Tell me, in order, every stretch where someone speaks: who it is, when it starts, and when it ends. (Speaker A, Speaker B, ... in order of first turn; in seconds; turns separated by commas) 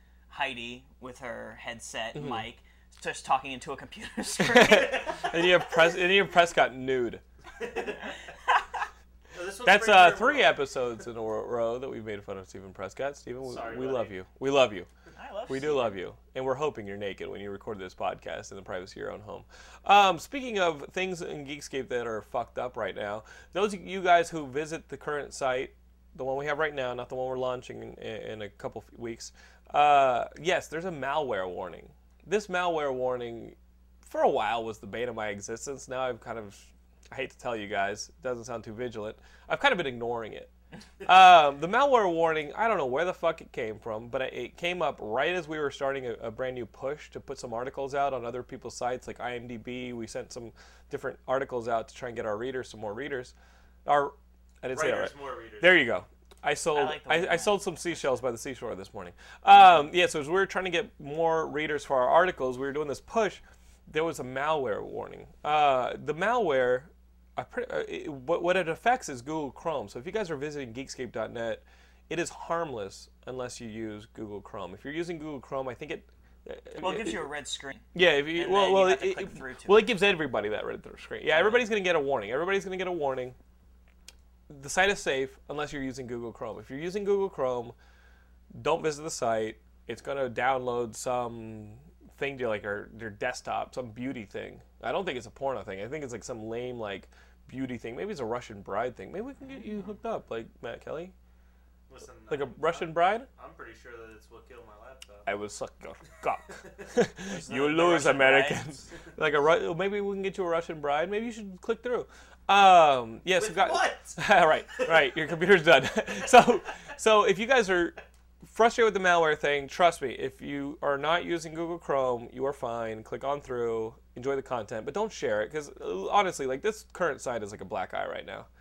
Speaker A: 0.3-5.3, Speaker B: 2.1-2.5, Speaker B: 4.4-7.2, Speaker C: 7.6-8.1, Speaker C: 9.3-10.6, Speaker B: 9.6-14.9, Speaker C: 13.4-14.2, Speaker A: 15.2-16.0, Speaker B: 15.5-53.3, Speaker B: 53.9-77.2, Speaker C: 54.7-55.8, Speaker A: 56.8-58.0, Speaker A: 76.8-79.9, Speaker B: 77.9-83.4, Speaker A: 81.3-81.7, Speaker B: 84.5-87.8, Speaker B: 88.5-101.1, Speaker C: 101.9-105.3, Speaker B: 102.3-103.3, Speaker B: 105.2-128.5, Speaker A: 107.2-108.8, Speaker C: 113.3-115.2